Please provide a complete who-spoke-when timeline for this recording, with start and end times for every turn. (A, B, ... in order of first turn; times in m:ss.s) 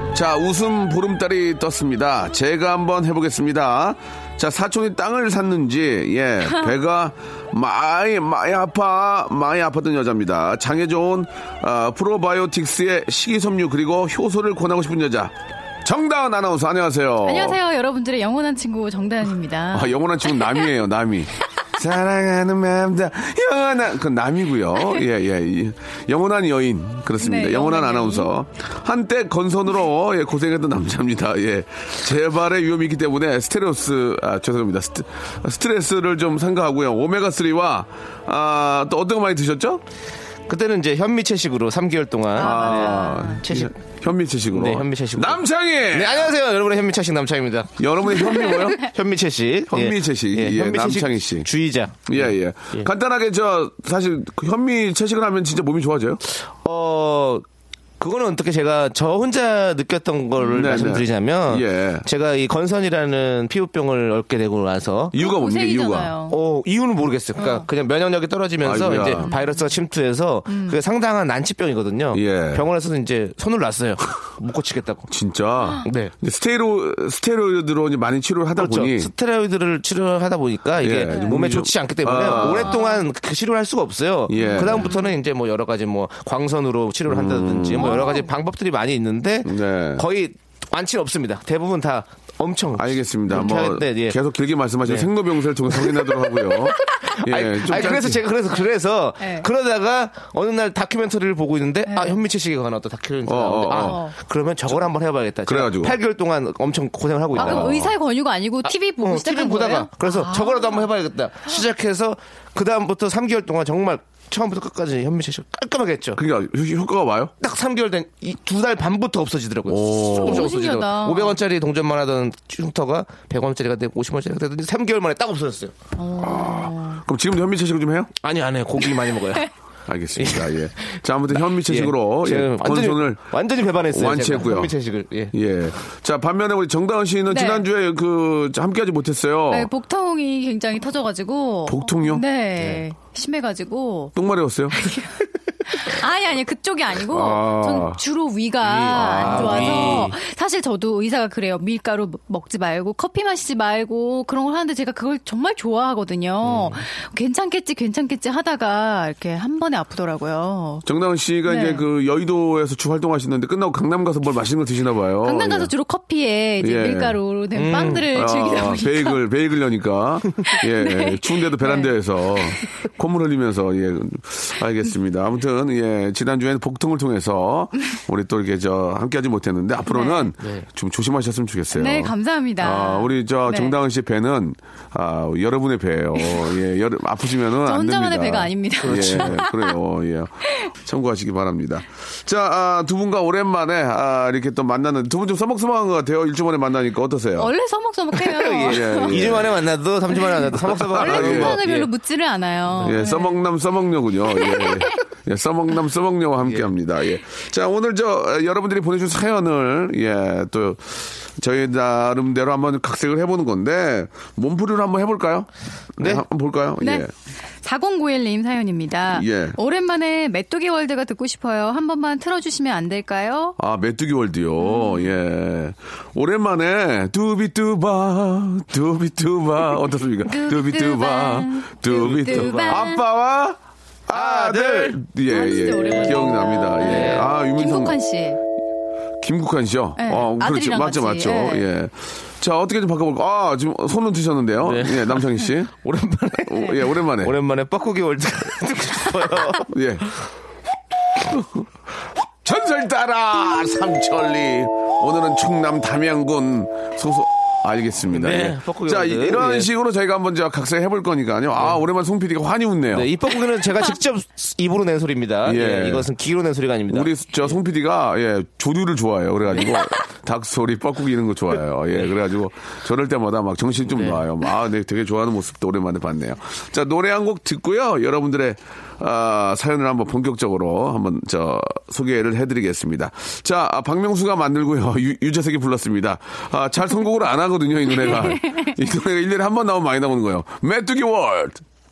0:00.1-0:17.6 A
0:17.2-0:20.5 B
0:19.7-0:39.8 A
0:27.2-0:28.3 B
0:40.5-0:43.7 C
0:42.4-0:46.3 A
0:42.4-0:43.4 B
0:44.5-0:52.9 C
0:47.8-0:48.8 A
0:49.7-0:51.5 A
0:52.1-0:56.2 A
0:56.5-0:57.4 C
0:58.0-1:05.1 C
1:00.4-1:02.0 A
1:05.1-1:06.1 A
1:05.1-1:06.4 B
1:06.3-1:15.1 C
1:07.4-1:07.7 B
1:08.6-1:09.3 A
1:09.2-1:09.7 B
1:10.5-1:10.8 B
1:12.1-1:12.6 A
1:15.1-1:19.1 A
1:15.8-1:16.1 C
1:18.6-1:34.2 C
1:20.8-1:22.8 A
1:22.3-1:23.0 B
1:24.3-1:24.9 A
1:24.4-1:25.1 B
1:27.1-1:28.1 A
1:27.8-1:28.3 B
1:29.4-1:30.0 A
1:32.8-1:38.2 A
1:34.8-1:35.1 C
1:37.0-1:47.7 C
1:37.7-1:38.6 B
1:39.2-1:39.5 B
1:41.9-1:42.2 B
1:43.2-1:44.0 A
1:43.7-1:44.2 B
1:45.5-1:46.0 A
1:47.3-1:47.9 A
1:47.4-1:50.9 B
1:48.6-1:56.2 C
1:56.2-1:57.3 A
1:57.4-2:05.7 C
1:59.6-2:00.6 A
2:00.0-2:01.4 B
2:06.0-2:07.0 B
2:06.2-2:08.1 A
2:08.2-2:09.5 C
2:09.8-2:13.2 A
2:10.2-2:15.3 C
2:13.9-2:14.7 A
2:15.3-2:19.7 A
2:17.3-2:17.6 B
2:19.5-2:24.1 B
2:21.6-2:22.2 A
2:24.1-2:24.9 A
2:24.7-2:40.8 B
2:27.0-2:28.0 A
2:28.6-2:30.2 C
2:29.0-2:29.9 A
2:36.4-2:36.8 C
2:40.8-2:45.7 A
2:41.4-2:41.8 B
2:45.2-2:49.2 B
2:46.6-2:47.2 A
2:47.5-2:48.1 C
2:47.9-3:17.5 A
2:50.5-2:52.5 B
2:59.9-3:00.3 B
3:00.4-3:00.6 C
3:01.7-3:03.8 B
3:06.2-3:06.5 B
3:07.6-3:09.7 B
3:08.8-3:09.4 C
3:17.4-3:19.4 B
3:18.2-3:21.9 C
3:18.6-3:19.6 A
3:20.1-3:23.5 B
3:20.7-3:21.6 A
3:22.8-3:37.1 A
3:24.4-3:24.9 B
3:26.4-3:26.7 C
3:36.0-3:36.2 C
3:36.8-3:37.1 B
3:37.6-3:43.6 B
3:39.1-3:39.6 A
3:43.6-3:58.0 A
3:44.6-3:45.1 B
3:50.2-3:53.0 B
3:51.9-3:52.9 C
3:54.1-3:55.0 C
3:55.3-3:58.4 B
3:55.9-3:56.2 C
3:56.8-3:57.3 C
3:59.2-4:05.7 A
4:00.0-4:01.6 B
4:04.6-4:09.7 C
4:06.5-4:07.3 A
4:09.7-4:10.1 A
4:11.2-4:11.7 A
4:12.4-4:23.1 A
4:18.1-4:19.7 C
4:21.6-4:21.8 C
4:22.9-4:27.1 C
4:25.4-4:26.1 A
4:26.9-4:51.6 A
4:29.5-4:29.8 C
4:33.8-4:34.2 C
4:48.1-4:48.6 B